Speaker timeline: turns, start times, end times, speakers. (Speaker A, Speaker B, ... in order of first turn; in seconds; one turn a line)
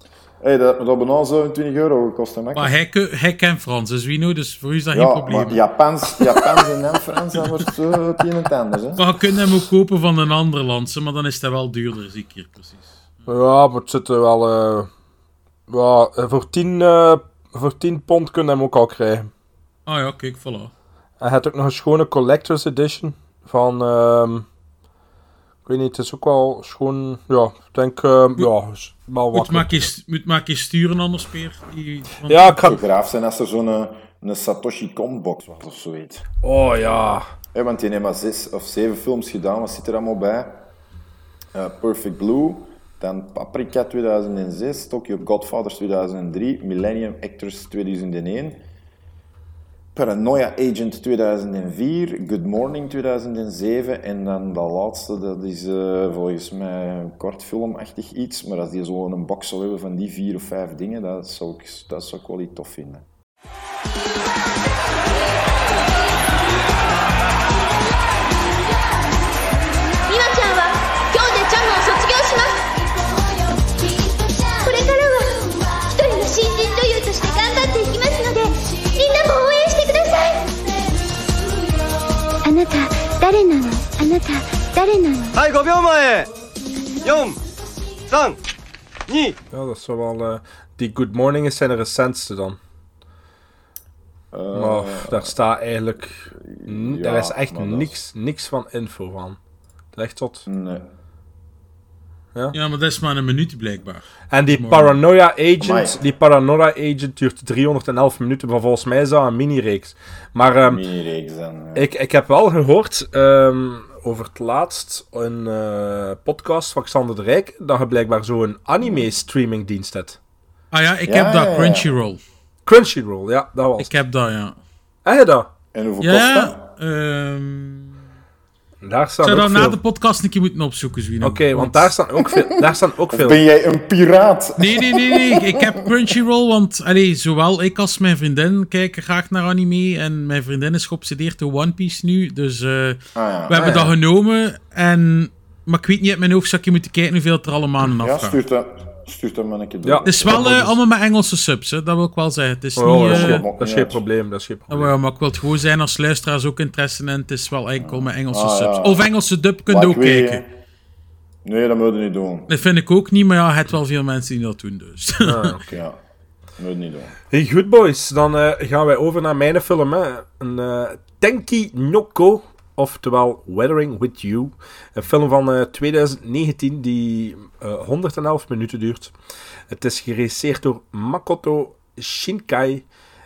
Speaker A: 0.4-2.7
Speaker B: 2.5-5.6
Speaker A: 4.9-9.0
Speaker B: 9.0-13.3
Speaker C: 13.3-14.9
Speaker C: 15.7-19.3
Speaker B: 19.9-20.7
Speaker C: 21.2-24.4
Speaker C: 25.6-29.9
Speaker B: 29.3-32.5
Speaker C: 32.3-32.8
Speaker A: 32.6-36.2
Speaker C: 36.4-37.3
Speaker A: 37.5-40.7
Speaker A: 41.5-48.6
Speaker A: 49.9-63.1
Speaker D: 70.0-72.7
Speaker D: 74.4-80.5
Speaker D: 82.4-85.4
Speaker E: 85.3-86.3
Speaker E: 87.0-87.4
Speaker E: 88.1-88.4
Speaker E: 89.1-89.3
Speaker C: 89.5-92.6
Speaker A: 94.3-95.3
Speaker C: 94.5-99.4
Speaker A: 96.3-98.0
Speaker C: 99.9-100.4
Speaker A: 100.5-100.9
Speaker B: 102.5-105.0
Speaker C: 104.3-110.8
Speaker A: 105.6-106.0
Speaker A: 110.7-111.9
Speaker C: 111.7-120.2
Speaker A: 118.8-119.1
Speaker B: 120.7-122.2
Speaker A: 121.0-121.9
Speaker C: 122.7-123.9
Speaker B: 123.8-124.5
Speaker C: 125.0-125.5
Speaker A: 125.7-126.6
Speaker B: 126.0-127.9
Speaker C: 128.8-129.8
Speaker B: 129.2-131.9
Speaker C: 131.2-133.4
Speaker A: 132.2-135.9
Speaker B: 134.6-148.4
Speaker A: 143.1-143.9
Speaker A: 148.0-150.7
Speaker C: 149.8-150.7
Speaker B: 150.1-153.4
Speaker C: 152.8-154.9
Speaker A: 152.8-154.0
Speaker B: 154.7-160.4
Speaker A: 157.8-159.1
Speaker A: 159.7-160.5
Speaker A: 161.4-162.5
Speaker B: 162.5-165.5
Speaker C: 165.2-165.8
Speaker A: 165.7-166.0
Speaker A: 166.6-167.2
Speaker C: 167.3-179.1
Speaker C: 179.7-182.8